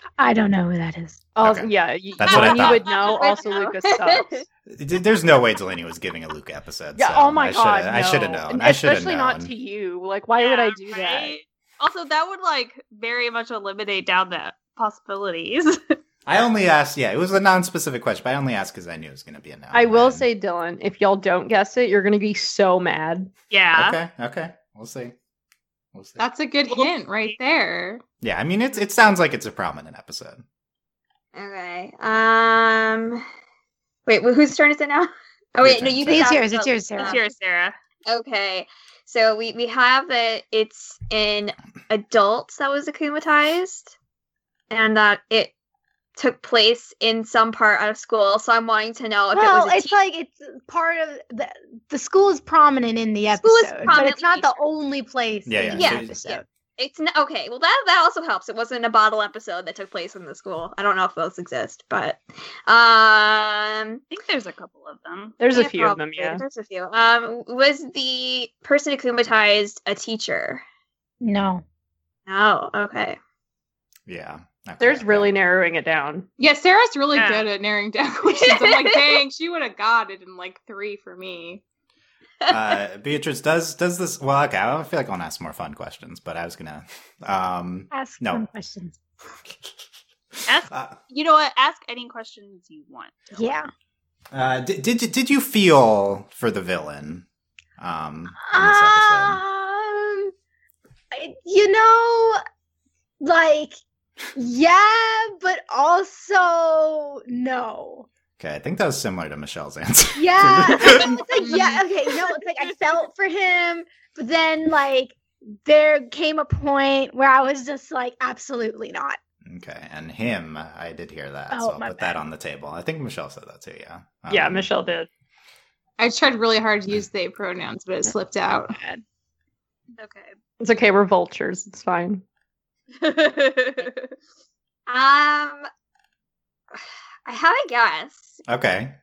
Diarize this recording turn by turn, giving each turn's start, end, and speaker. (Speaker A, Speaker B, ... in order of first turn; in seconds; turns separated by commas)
Speaker A: 0.2-1.3, Speaker B: 1.4-4.4, Speaker C: 1.4-2.9, Speaker D: 2.2-3.6, Speaker E: 2.9-4.4, Speaker C: 4.7-9.5, Speaker B: 7.0-11.4, Speaker D: 10.4-16.0, Speaker C: 16.3-20.2, Speaker B: 19.7-23.3, Speaker D: 23.5-24.0, Speaker C: 23.7-25.1, Speaker C: 25.9-26.2, Speaker F: 26.2-28.0, Speaker D: 26.7-27.4, Speaker C: 28.2-30.4, Speaker E: 31.3-33.2, Speaker E: 34.0-37.2, Speaker C: 35.6-36.3, Speaker A: 36.0-37.2, Speaker D: 37.0-37.8, Speaker E: 38.0-43.9, Speaker E: 44.7-45.5, Speaker E: 46.2-50.0, Speaker A: 49.3-56.5, Speaker E: 53.4-54.5, Speaker C: 55.5-56.3, Speaker E: 55.7-64.0, Speaker D: 64.1-65.4, Speaker B: 65.4-66.4, Speaker E: 65.5-70.6, Speaker A: 71.2-71.6, Speaker E: 72.3-73.2, Speaker C: 74.1-75.3, Speaker B: 74.8-76.2, Speaker F: 76.4-81.6, Speaker D: 77.1-77.5, Speaker E: 78.3-79.2, Speaker C: 82.5-88.5, Speaker A: 87.9-88.9, Speaker D: 90.5-93.6, Speaker C: 90.7-91.0, Speaker A: 93.3-93.7, Speaker C: 94.3-97.2, Speaker C: 97.8-99.4, Speaker A: 98.4-100.3, Speaker A: 101.1-102.4, Speaker A: 103.2-103.8, Speaker A: 104.3-108.0, Speaker C: 108.4-111.2, Speaker A: 110.1-119.2, Speaker D: 111.4-111.7, Speaker C: 119.4-124.7, Speaker A: 121.5-122.1, Speaker B: 124.3-125.1, Speaker F: 126.0-128.8, Speaker A: 128.7-129.0, Speaker B: 130.6-132.2, Speaker D: 132.9-134.1, Speaker E: 134.9-135.7, Speaker E: 136.7-138.4, Speaker C: 138.5-138.9